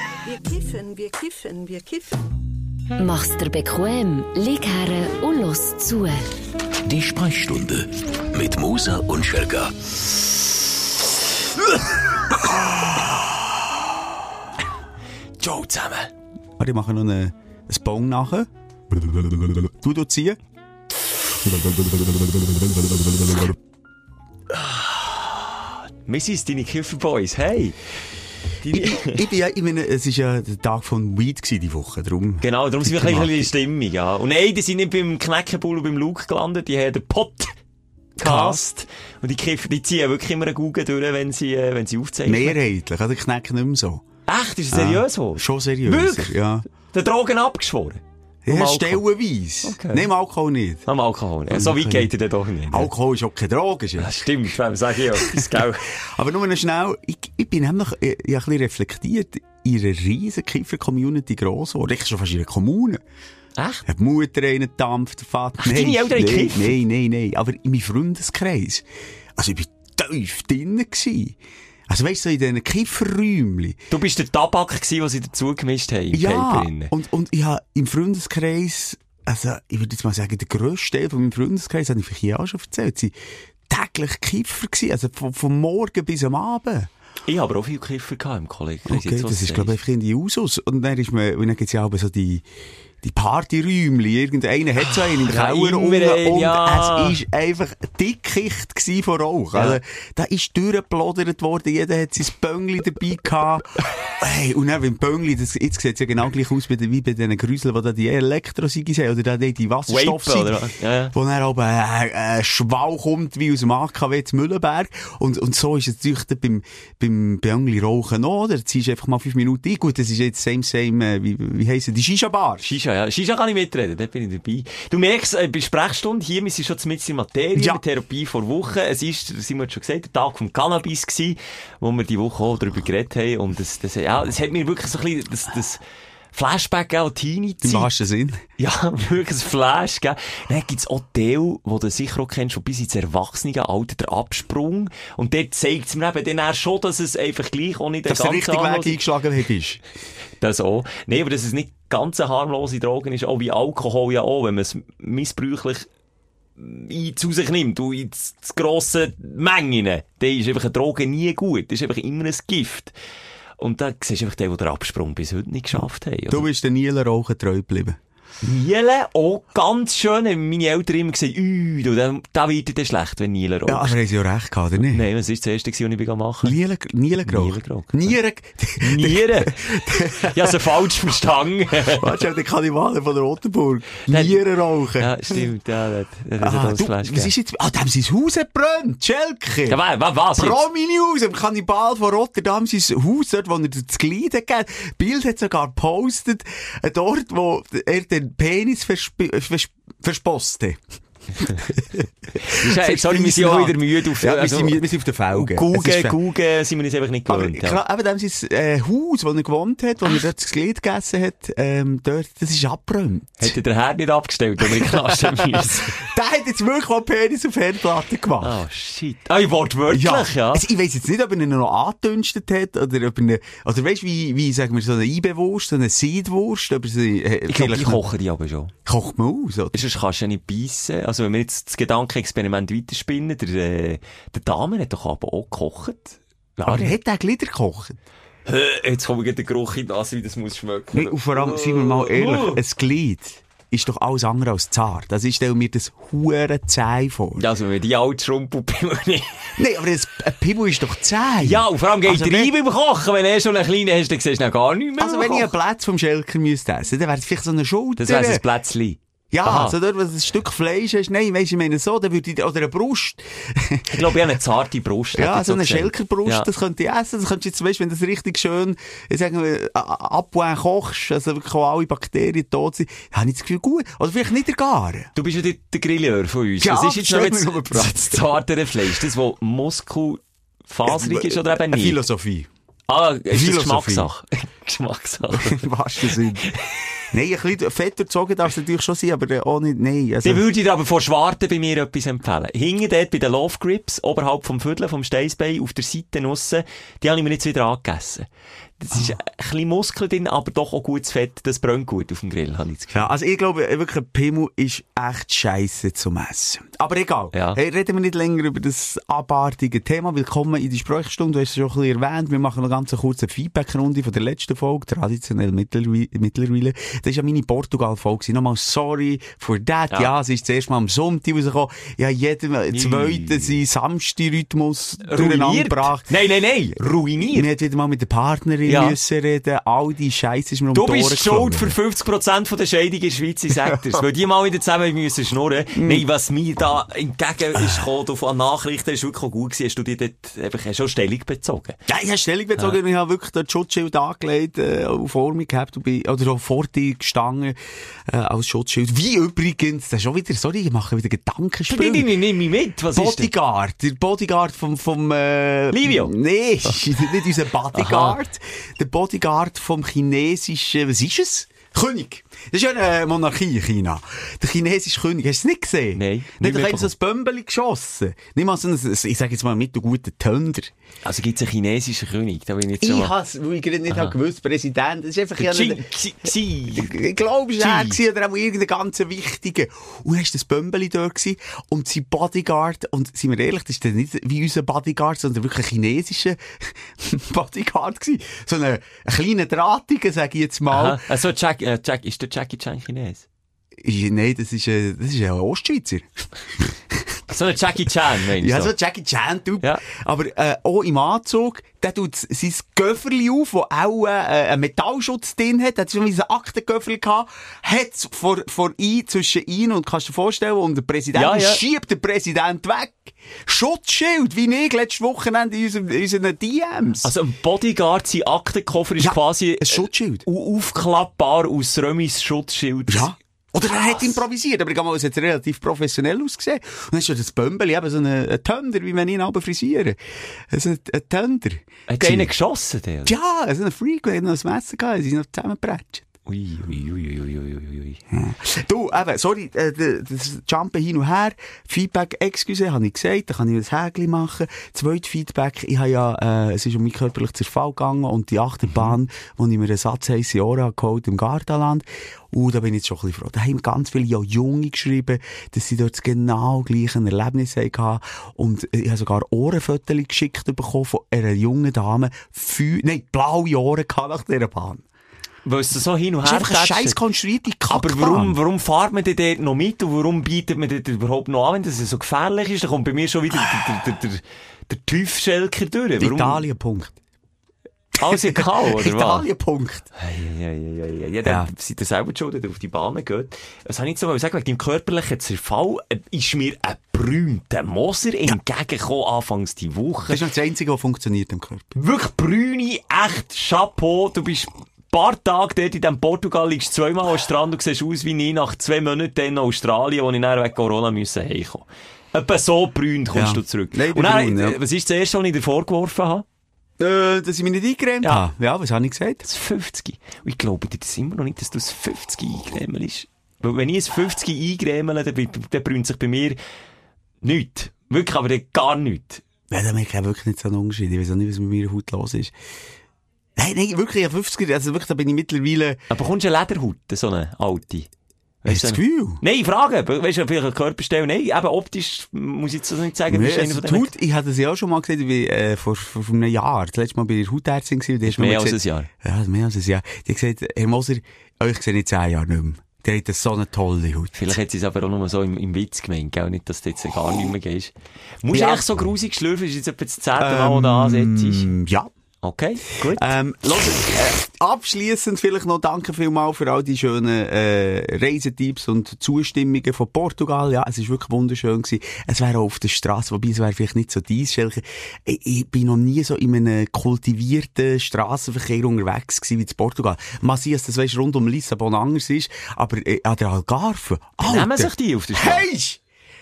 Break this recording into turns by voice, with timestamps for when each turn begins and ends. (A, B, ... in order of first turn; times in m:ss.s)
0:00.2-0:02.2 A
0:03.0-0:06.3 B
0:06.9-0:09.9 C
0:15.4-0:16.1 D
0:16.6-0:18.5 E
0:19.2-0:20.4 E
0:24.5-0:27.8 D
0:28.6-0:29.2 D
0:28.7-0:33.4 E
0:32.4-0:37.6 D
0:38.2-0:42.6 D
0:38.2-0:38.6 E
0:42.3-0:44.0 E
0:44.3-0:49.0 D
0:44.7-0:46.6 E
0:48.5-0:50.8 E
0:49.6-0:50.1 D
0:50.8-0:52.9 D
0:51.5-0:52.1 E
0:52.7-0:54.3 E
0:54.0-0:55.9 D
0:55.2-1:03.0 E
1:03.6-1:03.8 D
1:03.8-1:08.8 E
1:05.6-1:06.8 D
1:09.4-1:11.4 E
1:11.9-1:13.8 E
1:13.9-1:16.9 D
1:16.1-1:23.2 E
1:23.7-1:26.9 E
1:27.3-1:29.8 D
1:28.8-1:32.4 E
1:33.0-1:50.6 E
1:34.9-1:37.2 D
1:39.5-1:39.8 D
1:49.9-1:51.1 D
1:51.1-2:02.6 E
2:02.6-2:15.8 D
2:07.6-2:07.8 E
2:16.3-2:17.9 D
2:17.6-2:18.4 E
2:18.6-2:29.0 D
2:28.1-2:29.8 E
2:30.4-2:35.9 D
2:36.6-2:42.9 D
2:43.6-2:46.5 D
2:45.7-2:48.0 E
2:48.4-2:54.0 D
2:53.7-2:55.0 E
2:54.8-2:56.6 D
2:56.4-3:00.6 E
2:57.2-2:58.1 D
2:58.8-3:02.1 D
3:01.9-3:05.5 E
3:04.1-3:04.4 D
3:05.0-3:07.3 D
3:06.4-3:09.8 E
3:09.7-3:10.6 D
3:10.4-3:20.8 E
3:21.4-3:26.2 E
3:22.4-3:27.8 D
3:27.3-3:33.5 E
3:33.4-3:36.1 D
3:34.6-3:38.6 E
3:38.4-3:40.6 D
3:39.9-3:48.0 E
3:47.5-3:48.7 D
3:48.9-3:49.8 E
3:49.7-3:57.0 D
3:56.7-3:58.0 E
3:58.4-4:02.6 D
4:00.9-4:07.4 E
4:07.4-4:09.5 D
4:09.6-4:12.5 E
4:11.4-4:15.5 D
4:15.0-4:18.4 E
4:18.0-4:19.8 D
4:19.3-4:24.2 E
4:23.9-4:26.5 D
4:25.1-4:35.1 E
4:35.1-4:42.0 D
4:36.6-4:38.4 E
4:40.9-4:42.5 E
4:42.9-4:46.9 D
4:43.3-4:44.1 E
4:45.3-4:46.5 E
4:47.1-4:50.4 E
4:50.2-4:58.2 D
4:58.8-5:03.1 D
5:02.9-5:26.1 E
5:07.3-5:07.6 D
5:22.7-5:23.6 D
5:25.0-5:27.5 D
5:27.2-5:31.8 E
5:28.7-5:29.0 D
5:30.7-5:41.8 D
5:33.6-5:34.0 E
5:35.8-5:36.0 E
5:37.6-5:37.9 E
5:41.9-5:47.6 E
5:48.1-5:52.1 E
5:51.7-5:53.3 D
5:52.9-6:10.7 E
5:55.7-5:56.1 D
5:57.7-5:58.2 D
6:06.0-6:06.9 D
6:11.0-6:13.1 D
6:12.8-6:15.8 E
6:15.4-6:17.0 D
6:16.7-6:31.0 E
6:17.6-6:18.0 D
6:30.7-6:33.2 D
6:33.8-6:37.2 E
6:37.3-6:38.7 D
6:38.4-6:57.1 E
6:51.1-6:51.6 D
6:57.0-7:03.1 D
6:59.0-7:00.2 E
7:02.9-7:12.3 E
7:03.7-7:04.2 D
7:11.9-7:13.1 D
7:13.0-7:16.1 E
7:16.2-7:18.0 D
7:18.1-7:44.8 E
7:45.4-7:47.0 D
7:46.2-7:48.4 E
7:47.7-7:56.4 D
7:53.3-7:53.8 E
7:56.0-7:57.0 E
7:58.0-7:59.2 D
7:58.0-7:59.9 E
8:00.0-8:10.2 D
8:01.2-8:01.5 E
8:10.1-8:11.8 E
8:11.8-8:26.2 D
8:23.1-8:24.6 E
8:26.8-8:29.2 E
8:29.2-8:36.4 D
8:37.2-8:39.2 D
8:39.5-8:42.3 E
8:43.4-8:45.8 E
8:45.9-8:47.9 D
8:48.4-8:53.9 D
8:48.5-8:49.2 E
8:53.1-9:04.3 E
8:58.1-8:58.9 D
9:04.1-9:11.5 D
9:08.3-9:08.6 E
9:10.2-9:11.9 E
9:12.2-9:13.1 D
9:12.9-9:35.8 E
9:34.2-9:35.5 D